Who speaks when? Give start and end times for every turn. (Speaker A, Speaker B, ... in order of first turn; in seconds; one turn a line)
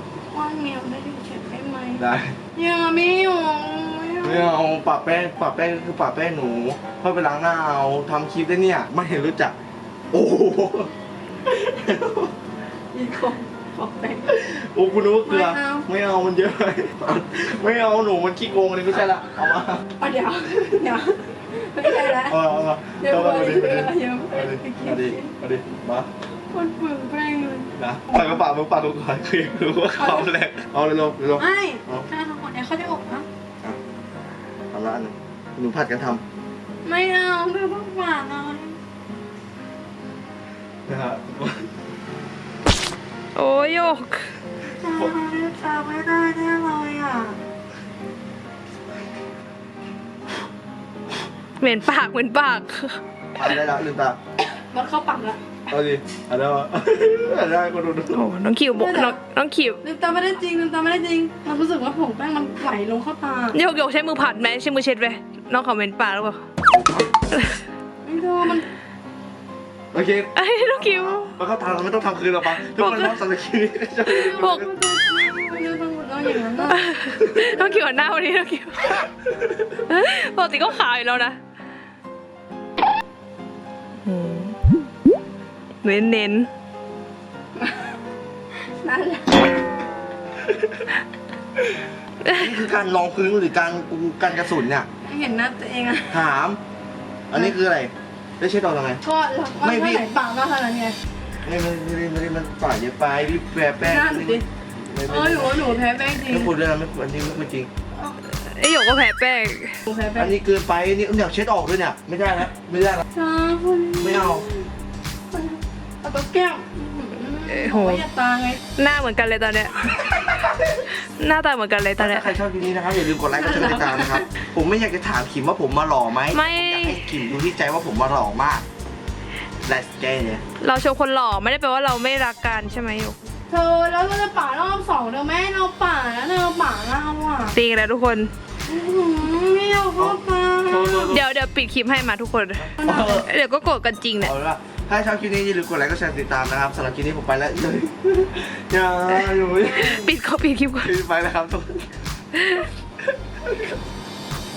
Speaker A: 0.3-2.0
Speaker B: 2.0-2.4
Speaker A: 2.5-4.5
Speaker B: 4.2-9.5
Speaker B: 10.1-10.9
Speaker B: 11.4-12.3
Speaker A: 12.9-14.3
Speaker B: 14.2-19.8
Speaker A: 15.2-15.9
Speaker A: 20.0-25.3
Speaker B: 22.1-26.1
Speaker A: 26.5-27.7
Speaker B: 27.7-32.0
Speaker A: 30.0-30.3
Speaker A: 31.4-33.2
Speaker B: 34.7-36.2
Speaker A: 36.8-38.8
Speaker B: 40.9-41.7
Speaker C: 43.3-44.3
Speaker A: 44.8-47.4
Speaker C: 51.6-53.0
Speaker B: 53.4-54.2
Speaker A: 54.5-55.4
Speaker B: 55.7-58.2
Speaker C: 58.1-59.8
Speaker A: 58.7-59.2
Speaker A: 59.8-63.6
Speaker C: 63.5-66.4
Speaker C: 67.3-67.6
Speaker A: 68.0-68.7
Speaker B: 69.9-74.7
Speaker C: 70.3-71.3
Speaker C: 72.6-73.2
Speaker A: 74.1-76.8
Speaker C: 74.2-74.6
Speaker C: 76.7-79.1
Speaker C: 79.9-81.4
Speaker C: 84.0-84.5
Speaker C: 85.8-86.5
Speaker A: 87.6-87.9
Speaker A: 88.5-89.4
Speaker B: 92.2-94.9
Speaker A: 95.0-96.2
Speaker B: 96.1-96.6
Speaker B: 97.3-99.0
Speaker A: 99.0-101.0
Speaker B: 99.6-100.1
Speaker B: 101.4-105.6
Speaker A: 103.8-104.4
Speaker A: 105.0-106.5
Speaker B: 106.2-107.7
Speaker C: 108.3-109.8
Speaker A: 109.8-110.3
Speaker B: 110.1-113.0
Speaker A: 113.1-114.7
Speaker B: 114.0-114.5
Speaker A: 115.3-118.6
Speaker C: 117.5-118.0
Speaker C: 118.8-119.8
Speaker C: 121.0-122.3
Speaker B: 122.0-128.6
Speaker A: 123.3-124.2
Speaker C: 126.3-127.1
Speaker B: 129.6-130.4
Speaker C: 130.6-133.2
Speaker A: 133.5-137.6
Speaker C: 137.5-138.3
Speaker A: 138.7-141.1
Speaker B: 140.0-141.3
Speaker C: 141.1-144.3
Speaker B: 142.6-143.3
Speaker A: 142.8-143.2
Speaker B: 144.2-150.1
Speaker C: 149.7-150.9
Speaker B: 150.8-151.9
Speaker C: 152.4-152.7